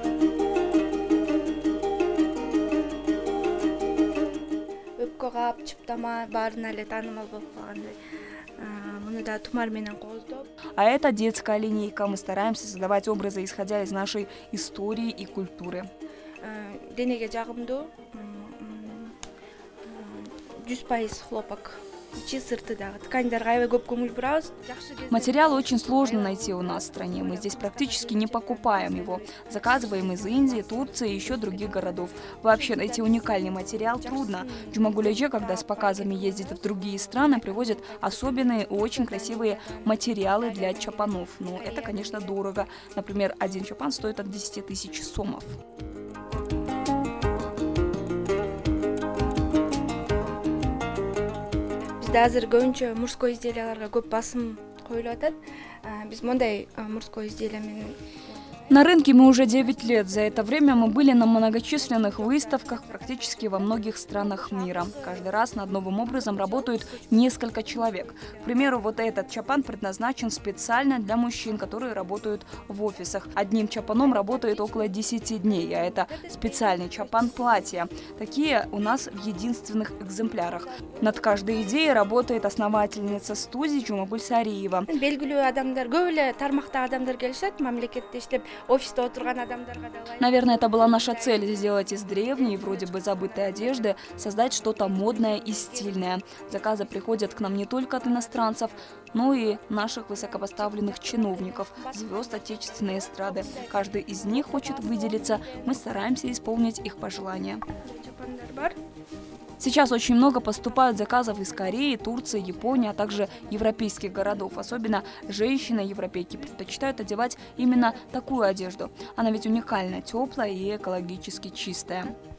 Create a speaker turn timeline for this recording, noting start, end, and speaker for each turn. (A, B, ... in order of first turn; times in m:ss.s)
0:05.0-0:08.0 A
0:08.6-0:10.5 A
0:10.8-0:15.9 B
0:16.4-0:19.2 A
0:19.8-0:42.4 A
0:25.1-0:45.6 B
0:52.0-1:09.0 A
0:58.7-1:24.9 B
1:13.9-1:17.8 A
1:20.4-1:22.7 A
1:24.9-1:36.0 A
1:30.2-1:47.6 B
1:37.7-1:38.8 A
1:40.1-1:45.8 A
1:47.7-1:48.8 A
1:49.6-2:02.1 B
1:51.0-1:55.2 A
1:57.6-1:58.1 A